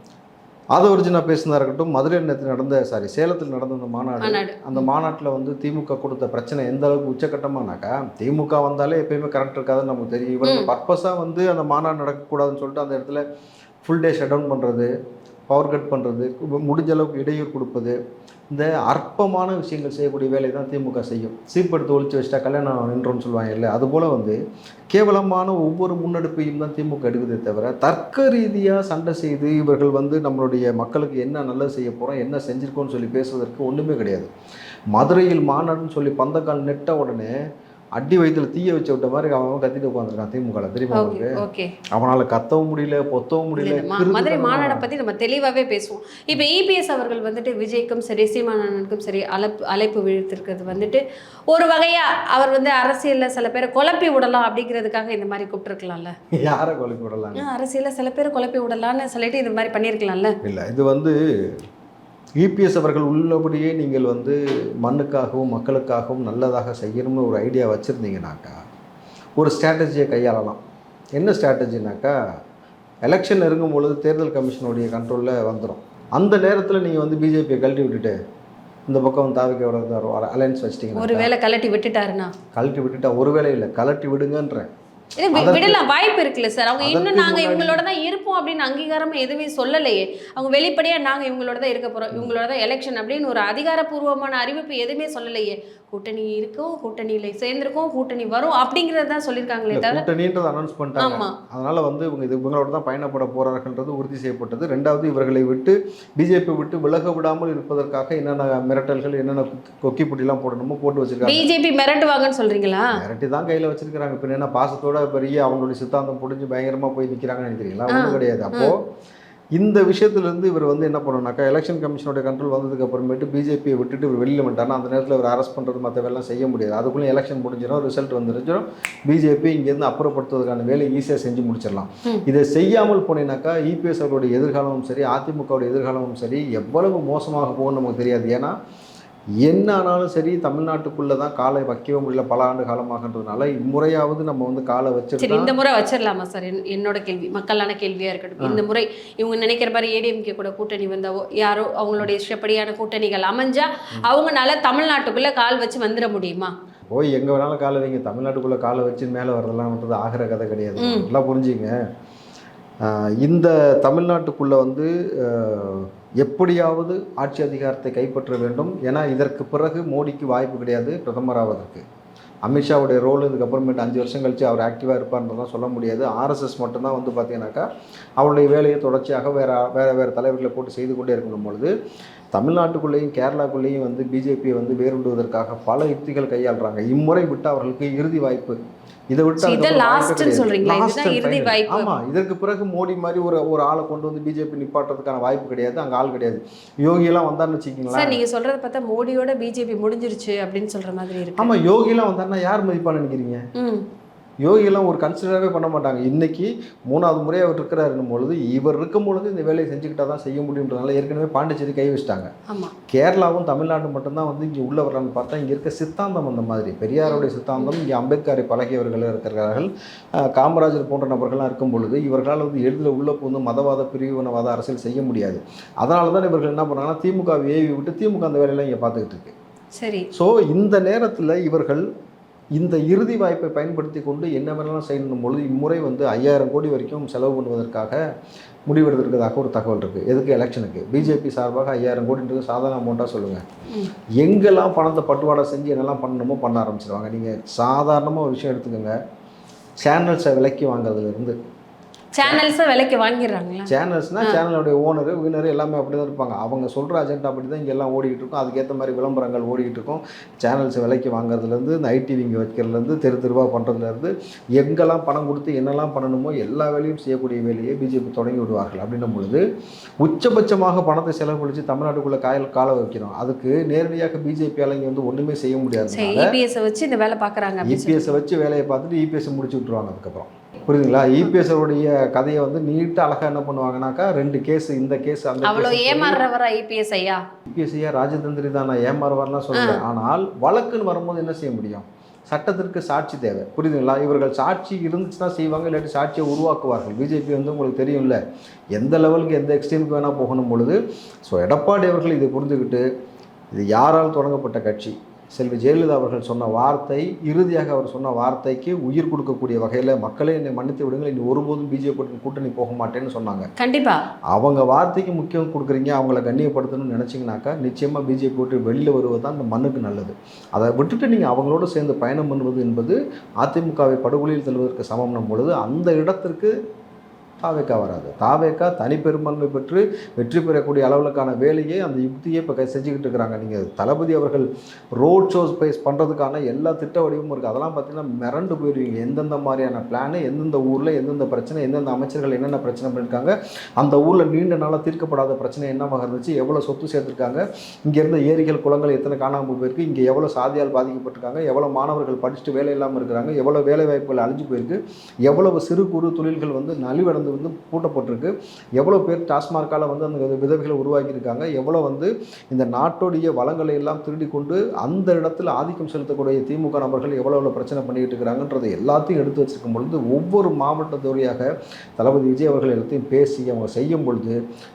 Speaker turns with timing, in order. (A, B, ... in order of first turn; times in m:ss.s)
0:00.8-0:13.2 A
0:04.2-0:04.9 B
0:10.4-0:10.7 B
0:13.8-0:14.9 A
0:15.5-0:18.0 A
0:18.5-0:24.4 A
0:24.9-0:34.3 A
0:34.9-0:37.3 A
0:38.0-0:41.3 A
0:41.0-0:41.8 B
0:41.9-0:44.9 A
0:43.6-0:56.1 B
0:56.4-0:57.5 A
0:57.4-1:00.3 B
1:00.4-1:01.6 A
1:02.4-1:08.6 A
1:09.4-1:10.6 A
1:11.2-1:12.2 A
1:13.1-1:18.2 A
1:18.9-1:21.3 A
1:21.0-1:22.3 B
1:22.5-1:24.7 A
1:25.2-1:40.0 B
1:25.3-1:25.8 A
1:26.8-1:27.8 A
1:39.7-1:51.5 A
1:41.0-1:41.3 B
1:51.2-1:52.9 B
1:52.9-1:58.8 A
1:57.9-1:58.7 B
1:59.6-2:18.5 A
2:19.4-2:25.5 A
2:25.2-2:36.5 B
2:36.9-2:41.7 A
2:40.8-2:41.1 B
2:42.8-2:51.8 A
2:52.4-2:57.6 A
2:58.2-3:01.7 A
3:02.3-3:08.6 A
3:09.1-3:18.2 A
3:09.4-3:11.9 B
3:17.9-3:21.5 B
3:21.4-3:23.4 A
3:23.6-3:23.8 B
3:24.4-3:32.3 A
3:32.5-3:32.7 B
3:32.9-3:39.7 A
3:37.0-3:37.7 B
3:40.2-3:49.3 A
3:49.8-3:50.1 B
3:50.1-3:51.8 A
3:52.6-3:58.0 A
3:58.7-4:03.4 A
4:04.2-4:09.0 A
4:09.8-4:11.4 A
4:12.2-4:13.7 B
4:13.7-4:29.4 A
4:30.0-4:36.3 A
4:35.9-4:38.2 B
4:37.6-4:46.2 A
4:45.4-4:47.2 B
4:47.5-4:58.2 A
4:49.6-4:49.8 B
4:58.8-5:02.8 A
5:03.5-5:13.5 A
5:13.6-5:14.1 B
5:14.3-5:26.5 A
5:27.4-5:34.5 A
5:35.0-6:14.4 A